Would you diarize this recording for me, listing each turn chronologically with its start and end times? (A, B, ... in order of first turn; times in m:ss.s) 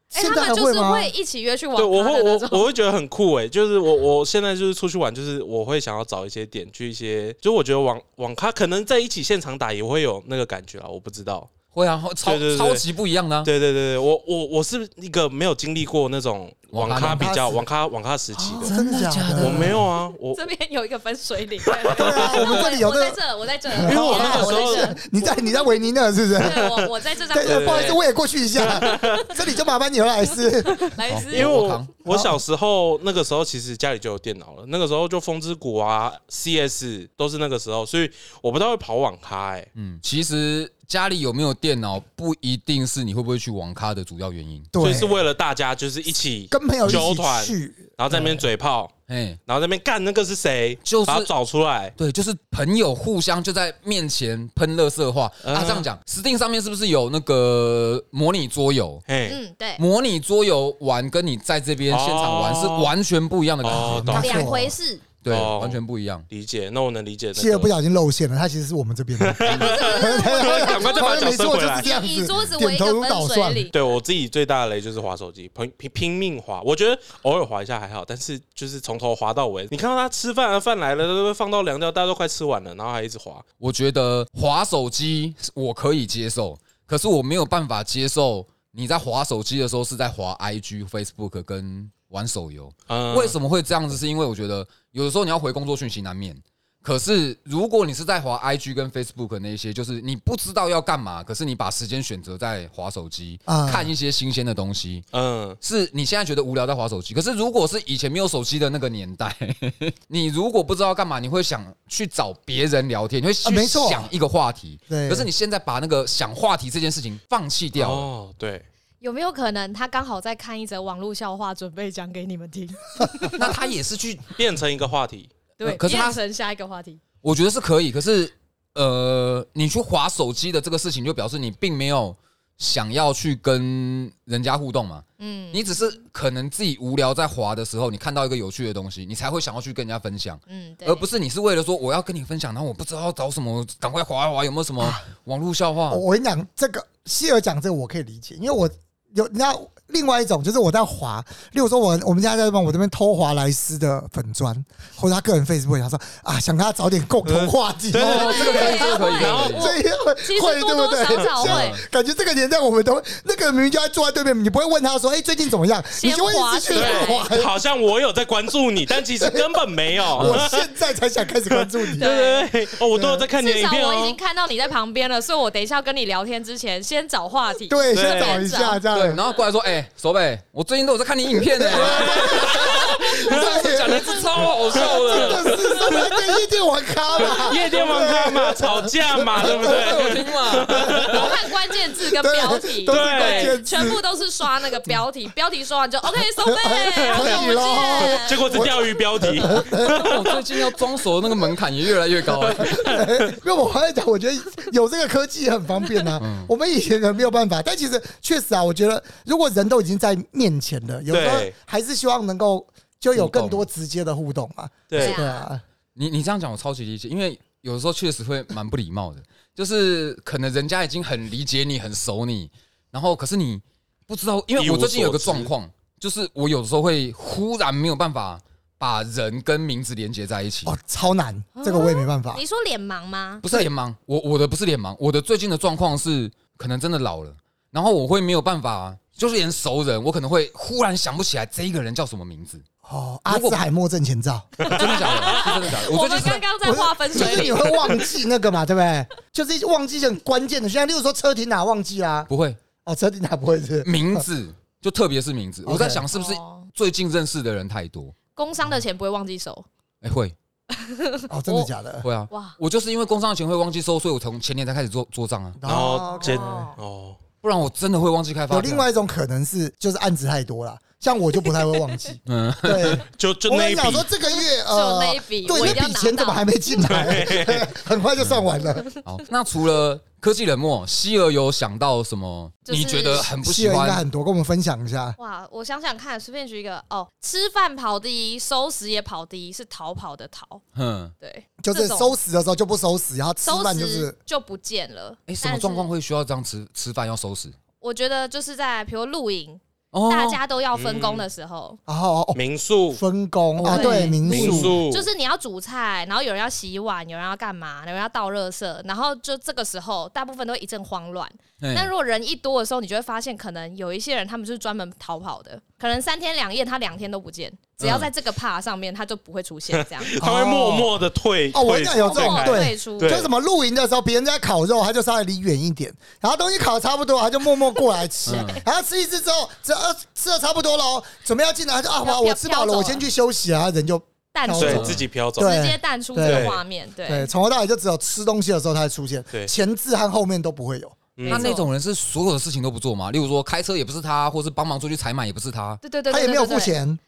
0:00.1-0:02.7 A
0:00.1-0:01.1 B
0:01.8-0:11.5 C
0:11.7-0:13.5 D
0:12.2-0:12.8 C
0:13.4-0:18.7 C
0:16.7-0:17.3 D
0:16.9-0:17.6 B
0:18.4-0:19.8 D
0:18.5-0:19.8 B
0:19.4-0:20.4 C
0:20.3-0:25.7 A
0:21.8-0:22.6 C
0:21.9-0:26.7 B
0:23.8-0:25.0 C
0:26.3-0:28.0 A
0:26.4-0:28.0 C
0:27.3-0:31.0 B
0:28.6-0:29.3 C
0:28.8-0:29.3 A
0:30.6-0:31.7 A
0:31.1-0:31.9 D
0:31.3-0:39.7 C
0:32.0-0:32.4 B
0:39.7-0:44.7 D
0:44.7-0:45.2 B
0:44.8-0:48.9 C
0:46.5-0:48.4 B
0:49.1-0:49.4 D
0:49.5-0:51.9 C
0:50.8-0:51.3 D
0:52.0-0:59.0 D
0:55.4-0:55.8 C
0:59.1-0:59.4 C
0:59.2-0:59.8 A
0:59.8-1:04.5 D
1:01.9-1:02.9 C
1:03.6-1:04.5 C
1:03.7-1:04.7 B
1:04.1-1:05.0 A
1:05.2-1:06.2 D
1:05.3-1:05.8 C
1:06.3-1:07.7 C
1:07.3-1:13.7 B
1:09.2-1:11.9 C
1:09.5-1:13.7 A
1:13.7-1:23.4 C
1:23.6-1:45.0 D
1:32.9-1:33.3 C
1:43.5-1:43.9 B
1:45.1-1:45.6 C
1:45.6-1:58.1 D
1:53.4-1:54.1 B
1:54.9-1:55.3 B
1:57.7-1:58.6 C
1:59.0-2:03.6 A
2:03.3-2:04.2 D
2:04.4-2:05.3 C
2:05.6-2:07.0 A
2:05.6-2:06.2 D
2:07.2-2:26.0 D
2:15.2-2:15.8 A
2:20.5-2:21.0 A
2:25.9-2:47.5 B
2:37.2-2:39.7 C
2:38.0-2:39.7 D
2:38.0-2:41.8 A
2:41.4-2:41.8 D
2:45.9-2:47.2 A
2:46.7-2:50.7 C
2:49.2-2:52.1 B
2:50.2-2:50.5 D
2:51.5-2:54.2 C
2:52.0-2:52.5 A
2:52.9-2:53.3 B
2:53.4-2:58.8 A
2:57.7-2:59.2 B
2:57.9-2:58.4 C
2:58.9-3:05.9 D
3:01.6-3:14.0 B
3:01.8-3:03.0 C
3:04.8-3:06.2 C
3:07.2-3:11.3 C
3:07.2-3:07.6 A
3:09.4-3:11.2 D
3:11.1-3:18.7 A
3:12.9-3:13.6 C
3:16.4-3:20.0 B
3:17.0-3:20.2 C
3:19.8-3:22.9 D
3:22.4-3:23.3 C
3:22.6-3:35.6 B
3:26.2-3:26.5 D
3:31.1-3:31.5 C
3:33.1-3:33.6 D
3:34.9-3:35.2 C
3:35.0-3:35.4 A
3:35.9-3:50.7 D
3:44.6-3:45.5 C
3:50.6-3:52.4 B
3:51.6-3:53.4 A
3:53.4-4:02.6 D
4:02.8-4:04.5 B
4:03.3-4:03.6 D
4:04.6-4:05.4 C
4:04.6-4:06.4 D
4:04.7-4:08.1 A
4:06.6-4:12.3 B
4:12.3-4:12.6 D
4:12.8-4:14.3 B
4:13.8-4:18.1 D
4:15.6-4:16.0 B
4:16.1-4:16.7 A
4:18.3-4:19.6 A
4:20.0-4:20.3 D
4:20.7-4:21.7 A
4:21.3-4:22.0 B
4:22.0-4:25.6 D
4:22.3-4:22.6 A
4:25.6-4:26.7 B
4:25.6-4:27.2 C
4:26.0-4:26.8 A
4:27.4-4:28.9 D
4:28.5-4:38.9 B
4:32.2-4:33.0 D
4:33.1-4:34.1 C
4:34.3-4:36.4 A
4:36.8-4:37.7 C
4:39.0-4:44.0 D
4:42.7-4:43.3 A
4:43.3-4:45.2 B
4:45.2-4:50.6 A
4:50.7-4:51.1 D
4:51.2-4:52.1 A
4:51.6-4:54.1 B
4:53.4-4:55.9 A
4:55.3-4:57.5 D
4:57.8-5:01.8 A
4:59.9-5:00.4 D
5:00.7-5:01.2 C
5:01.9-5:02.4 B
5:02.3-5:03.0 C
5:02.9-5:04.8 B
5:03.6-5:04.7 D
5:03.6-5:20.1 A
5:04.2-5:05.0 C
5:11.6-5:11.9 D
5:17.8-5:18.1 D
5:19.7-5:23.3 C
5:20.2-5:20.9 B
5:21.5-5:41.1 B
5:21.9-5:23.2 A
5:28.2-5:28.6 D
5:32.0-5:33.0 A
5:34.3-5:37.3 A
5:34.5-5:35.6 C
5:34.7-5:35.0 D
5:36.2-5:36.6 C
5:41.2-5:41.5 C
5:41.2-5:41.7 A
5:41.2-5:45.8 D
5:45.8-5:46.7 A
5:46.1-5:47.0 B